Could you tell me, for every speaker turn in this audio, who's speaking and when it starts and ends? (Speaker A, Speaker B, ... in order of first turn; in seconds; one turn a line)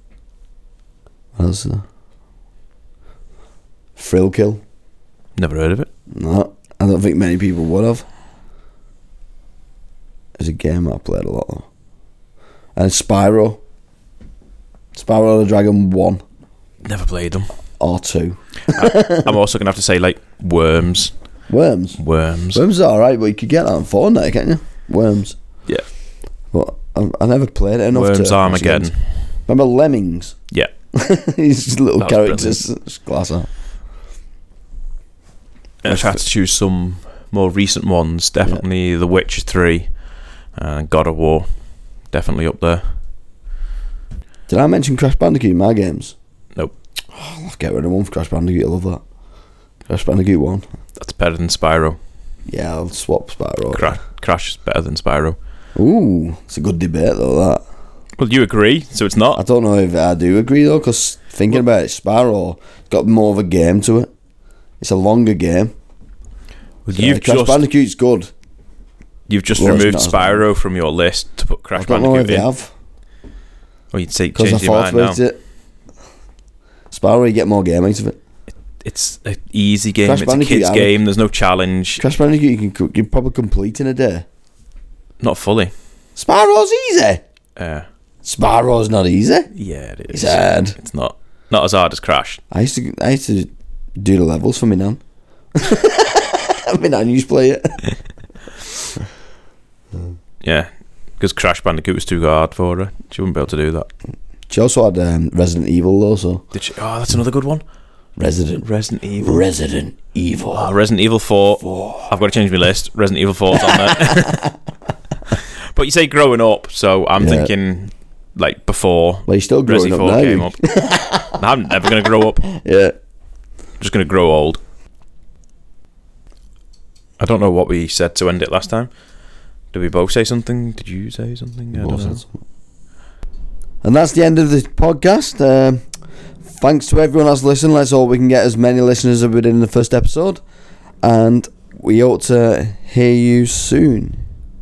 Speaker A: 1.4-1.8
Speaker A: 4.0-4.6
Speaker B: 5.4-5.9
Speaker A: 6.1-8.1
Speaker A: 10.4-11.7
Speaker A: 12.7-13.6
Speaker A: 14.9-16.2
Speaker B: 16.8-17.5
Speaker A: 17.8-19.3
Speaker B: 18.7-21.1
Speaker A: 21.5-22.0
Speaker B: 22.0-22.6
Speaker A: 22.5-25.4
Speaker A: 26.5-28.9
Speaker B: 27.9-29.1
Speaker A: 29.5-30.4
Speaker A: 30.9-33.5
Speaker B: 32.0-32.6
Speaker B: 35.8-40.0
Speaker A: 35.9-36.2
Speaker B: 40.5-42.9
Speaker A: 44.5-46.1
Speaker A: 47.1-49.0
Speaker A: 49.9-50.6
Speaker B: 51.0-52.0
Speaker A: 52.5-54.0
Speaker B: 53.7-55.4
Speaker A: 55.7-57.6
Speaker B: 58.2-59.4
Speaker A: 59.4-64.1
Speaker A: 64.8-65.7
Speaker B: 66.8-67.6
Speaker A: 66.9-68.3
Speaker B: 69.3-72.5
Speaker A: 69.5-70.4
Speaker A: 71.7-72.7
Speaker B: 73.9-75.2
Speaker A: 74.3-75.4
Speaker A: 76.9-78.2
Speaker B: 78.8-82.0
Speaker A: 80.0-80.9
Speaker A: 82.0-84.2
Speaker B: 85.2-85.7
Speaker A: 86.2-87.2
Speaker B: 87.6-87.8
Speaker A: 88.2-89.5
Speaker B: 89.5-92.4
Speaker A: 90.1-90.7
Speaker A: 92.5-95.0
Speaker A: 95.5-97.8
Speaker B: 100.4-103.9
Speaker A: 104.5-106.4
Speaker B: 106.5-107.6
Speaker A: 108.2-108.7
Speaker B: 108.6-109.4
Speaker A: 109.2-110.7
Speaker B: 110.5-114.5
Speaker A: 111.6-112.0
Speaker A: 113.6-114.5
Speaker B: 115.3-120.6
Speaker A: 117.2-117.5
Speaker A: 119.3-121.4
Speaker B: 121.3-122.4
Speaker A: 122.5-122.9
Speaker B: 123.8-124.6
Speaker B: 127.2-128.9
Speaker B: 129.7-132.2
Speaker A: 131.7-132.3
Speaker A: 133.8-135.8
Speaker A: 136.4-140.4
Speaker A: 141.0-144.2